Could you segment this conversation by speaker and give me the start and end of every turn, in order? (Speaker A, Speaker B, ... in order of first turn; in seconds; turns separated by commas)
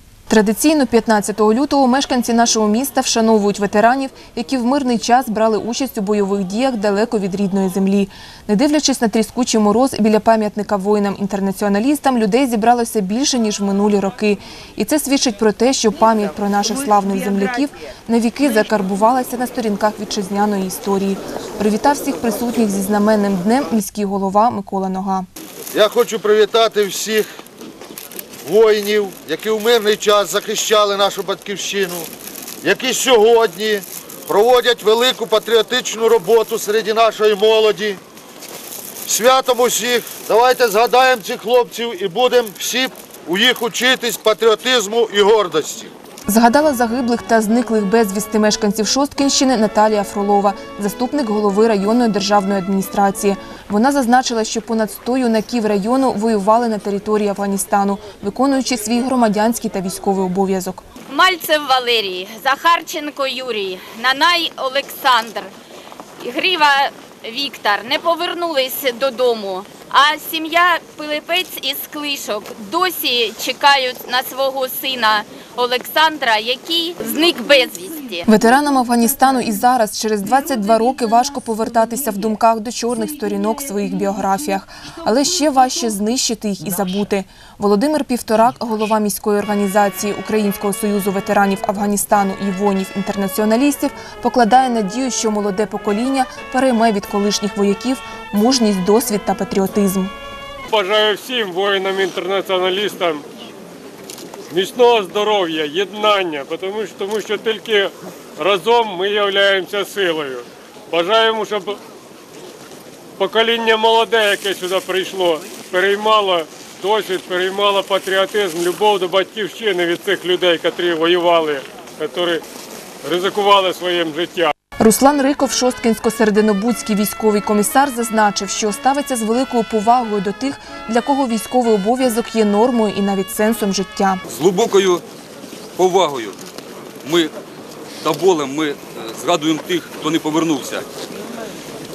Speaker A: 0.3-25.3, Speaker B: 25.7-27.3, Speaker B: 28.4-32.1, Speaker B: 32.6-38.0, Speaker B: 39.1-45.9, Speaker A: 46.3-60.8, Speaker C: 61.1-65.5, Speaker C: 66.2-78.2, Speaker A: 78.3-100.1, Speaker D: 100.7-103.2, Speaker D: 104.5-111.8, Speaker D: 113.2-122.4, Speaker D: 123.0-124.5, Speaker A: 124.8-134.2, Speaker E: 134.3-135.0, Speaker E: 135.8-136.4, Speaker E: 137.0-137.3, Speaker E: 138.0-140.8